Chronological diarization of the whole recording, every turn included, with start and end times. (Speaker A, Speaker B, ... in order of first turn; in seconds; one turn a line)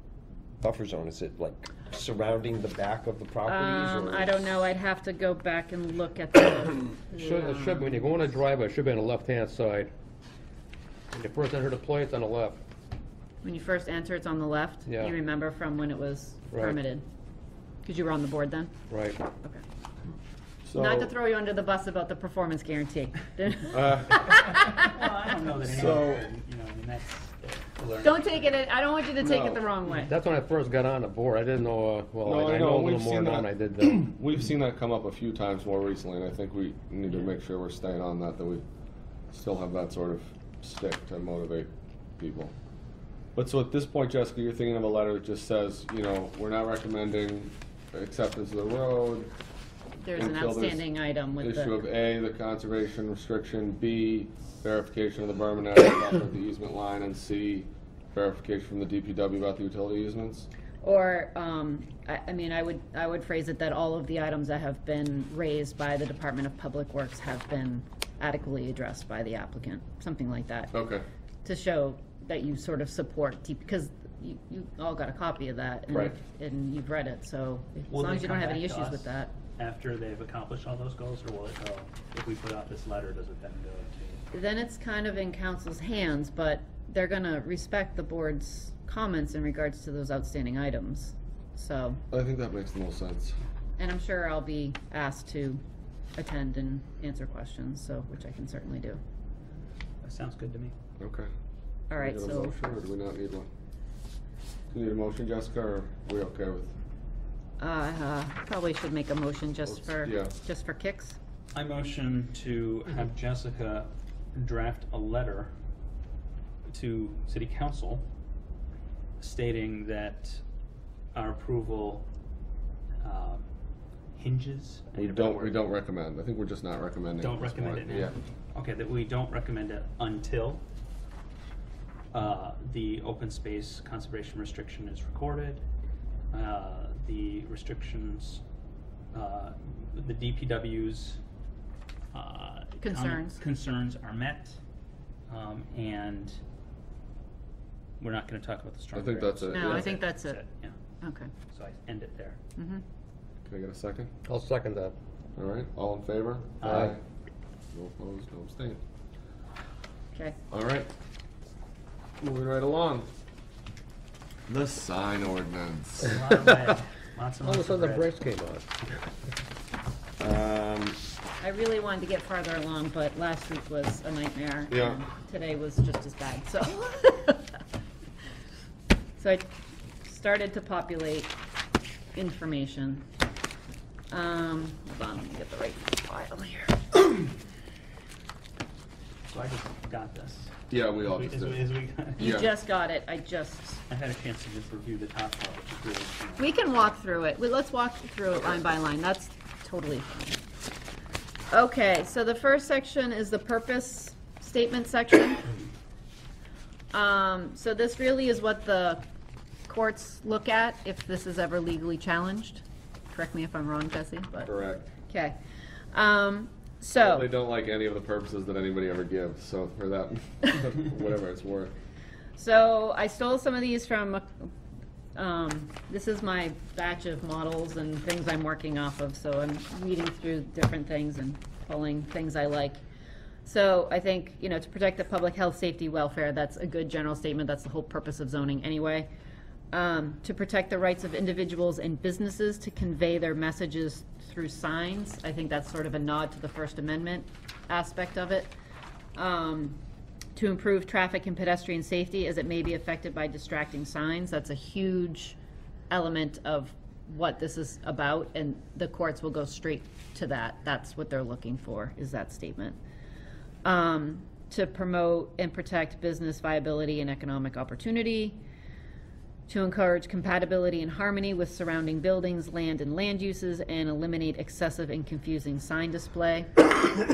Speaker A: 0.6-4.4
Speaker B: 3.5-8.3
Speaker C: 7.1-9.9
Speaker C: 11.1-12.6
Speaker B: 13.4-17.0
Speaker C: 14.9-15.1
Speaker C: 16.5-16.8
Speaker B: 17.8-18.8
Speaker C: 18.9-19.2
Speaker D: 20.6-21.1
Speaker B: 20.8-24.9
Speaker D: 23.7-24.6
Speaker E: 24.3-28.4
Speaker D: 25.7-26.2
Speaker B: 28.0-30.1
Speaker C: 30.0-34.1
Speaker D: 32.2-38.6
Speaker D: 39.3-42.5
Speaker D: 43.3-49.3
Speaker B: 50.0-51.8
Speaker D: 50.1-50.9
Speaker D: 51.4-60.5
Speaker B: 60.8-70.7
Speaker D: 70.7-71.0
Speaker B: 71.4-79.3
Speaker E: 77.9-84.2
Speaker B: 84.3-92.0
Speaker D: 92.1-93.4
Speaker B: 93.8-95.6
Speaker B: 96.2-99.0
Speaker E: 100.0-100.7
Speaker D: 101.0-101.3
Speaker B: 101.9-102.5
Speaker D: 101.9-103.5
Speaker D: 104.7-106.7
Speaker B: 107.6-111.2
Speaker D: 110.0-110.3
Speaker E: 111.5-115.5
Speaker E: 116.7-118.0
Speaker E: 119.2-120.4
Speaker E: 121.1-122.0
Speaker E: 123.0-123.5
Speaker E: 124.1-125.7
Speaker D: 125.0-128.1
Speaker E: 127.2-130.6
Speaker E: 132.1-135.6
Speaker E: 136.3-138.4
Speaker E: 139.1-141.2
Speaker E: 142.1-144.6
Speaker B: 142.8-143.4
Speaker E: 145.3-146.4
Speaker E: 148.0-150.7
Speaker D: 148.9-149.9
Speaker B: 149.5-150.4
Speaker B: 151.0-151.3
Speaker E: 151.5-152.4
Speaker B: 152.6-152.8
Speaker D: 153.4-154.1
Speaker C: 154.3-154.9
Speaker D: 155.3-157.0
Speaker E: 156.6-156.9
Speaker C: 156.6-156.9
Speaker D: 157.7-158.8
Speaker D: 160.5-160.9
Speaker D: 162.2-163.1
Speaker D: 164.5-166.2
Speaker E: 166.1-168.1
Speaker C: 167.4-168.7
Speaker D: 170.2-171.0
Speaker B: 171.4-177.5
Speaker D: 174.7-175.0
Speaker B: 179.2-179.5
Speaker B: 180.0-181.3
Speaker B: 182.1-183.0
Speaker B: 184.1-187.0
Speaker E: 189.3-192.4
Speaker D: 190.7-191.6
Speaker D: 192.2-192.5
Speaker B: 192.2-193.8
Speaker E: 193.9-196.9
Speaker B: 196.4-200.4
Speaker B: 201.5-205.5
Speaker B: 206.9-209.0
Speaker B: 209.7-214.5
Speaker D: 214.4-214.9
Speaker B: 215.1-215.4
Speaker B: 215.9-217.3
Speaker D: 216.9-221.7
Speaker B: 222.4-224.5
Speaker B: 225.1-232.8
Speaker B: 233.4-239.1
Speaker B: 239.7-248.5
Speaker B: 249.1-249.8
Speaker B: 250.3-255.4
Speaker B: 255.9-262.8
Speaker B: 263.6-268.4
Speaker B: 269.5-276.7